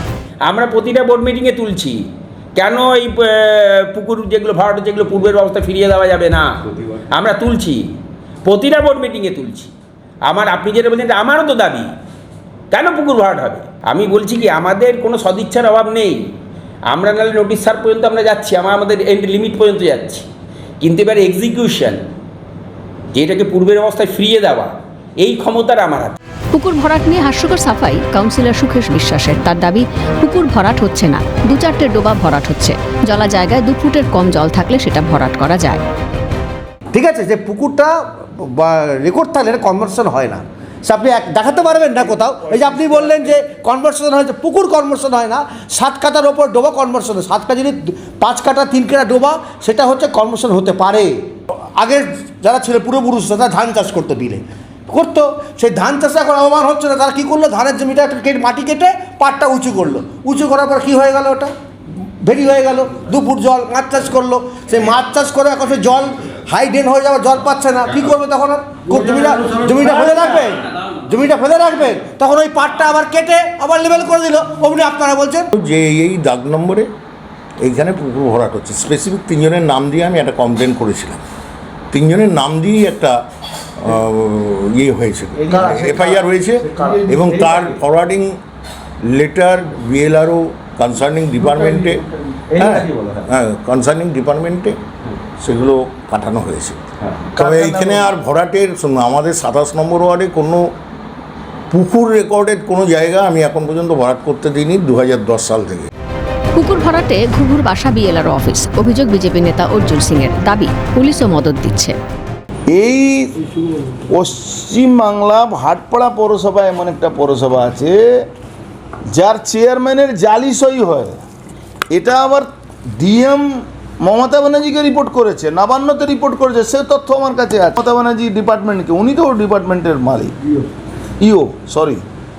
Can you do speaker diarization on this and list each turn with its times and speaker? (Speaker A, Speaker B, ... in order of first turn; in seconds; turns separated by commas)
Speaker A: 0.4-9.7, Speaker A: 10.2-11.9, Speaker A: 12.7-16.3, Speaker A: 16.9-20.3, Speaker A: 20.8-22.0, Speaker A: 23.1-26.2, Speaker B: 26.5-35.8, Speaker C: 36.9-51.2, Speaker C: 51.8-61.5, Speaker C: 62.2-75.5, Speaker D: 75.5-76.9, Speaker D: 77.6-81.2, Speaker D: 81.9-83.2, Speaker D: 83.8-88.4, Speaker D: 89.0-94.8, Speaker D: 95.4-96.8, Speaker D: 97.3-100.7, Speaker D: 101.7-105.9, Speaker B: 106.5-112.0, Speaker E: 112.7-118.2, Speaker E: 119.1-121.2, Speaker E: 121.9-130.3, Speaker E: 131.2-132.0